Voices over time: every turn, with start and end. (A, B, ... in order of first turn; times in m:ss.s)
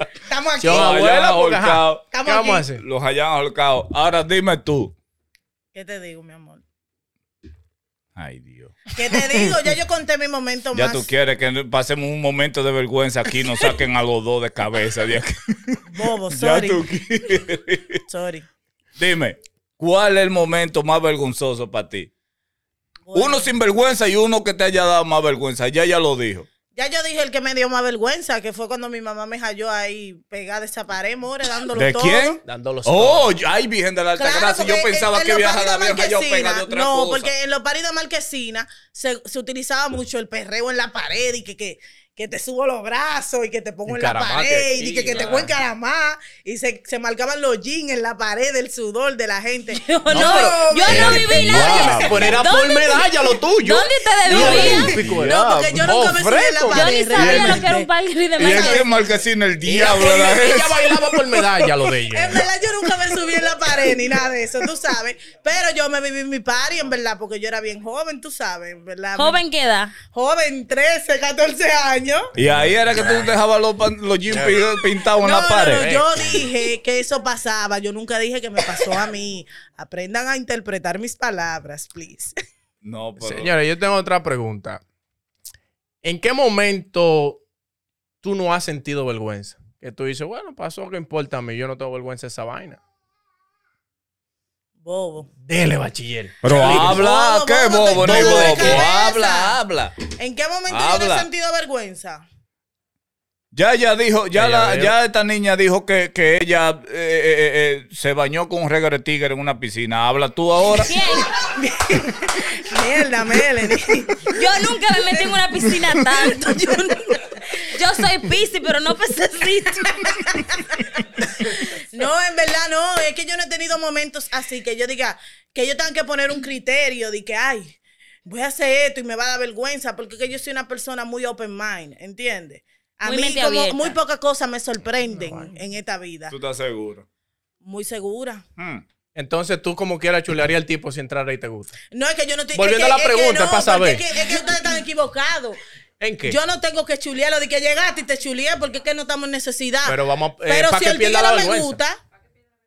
0:00.3-0:00.9 A
0:00.6-0:02.8 B
0:00.7-0:02.1 C
0:02.1-0:02.7 A
0:02.8-0:05.0 C
0:05.7-0:06.6 A
0:08.2-0:08.9 C
0:08.9-0:11.1 A
0:10.7-0:15.8 C
0:15.9-0:16.8 A
0:16.4-0:18.0 C
0:18.1-0:18.5 A
0:19.0-0:22.1 C
0:23.1-0:23.5 A
0:23.1-0:26.5 C
0:26.8-0:32.4 A
0:31.8-0:37.3 C
0:32.4-0:33.3 B
0:34.2-0:52.3 A
0:43.9-0:45.5 B
0:49.7-0:53.1 D
0:50.1-0:50.9 B
0:50.9-0:52.4 C
0:51.9-0:56.9 B
0:53.6-0:55.0 D
0:54.3-0:59.1 A
0:54.3-0:55.9 C
0:56.7-0:58.9 D
0:57.1-0:57.7 C
0:58.4-1:01.0 C
0:59.6-1:02.4 B
1:02.1-1:09.4 A
1:09.2-1:10.0 D
1:10.0-1:12.3 A
1:12.4-1:13.4 B
1:12.4-1:15.9 C
1:14.3-1:14.6 B
1:15.2-1:22.3 A
1:15.7-1:16.5 B
1:22.8-1:23.5 C
1:23.2-1:24.8 B
1:26.0-1:27.4 B
1:28.2-1:32.8 B
1:34.8-1:35.3 A
1:35.4-1:37.1 B
1:36.4-1:40.0 C
1:36.5-1:39.6 A
1:38.0-1:38.9 B
1:40.2-1:42.2 A
1:40.7-1:41.3 C
1:43.5-1:50.9 C
1:44.3-1:45.0 B
1:50.7-1:51.3 D
1:51.1-1:54.3 A
1:54.3-2:00.4 D
1:55.1-1:55.4 A
2:00.0-2:16.3 A
2:13.0-2:14.0 D
2:15.2-2:15.6 B
2:16.3-2:17.0 C
2:17.6-2:18.4 A
2:18.6-2:18.8 C
2:19.2-2:21.8 B
2:21.9-2:25.6 A
2:22.5-2:24.0 B
2:26.0-2:26.4 B
2:26.3-2:32.0 A
2:29.8-2:31.8 B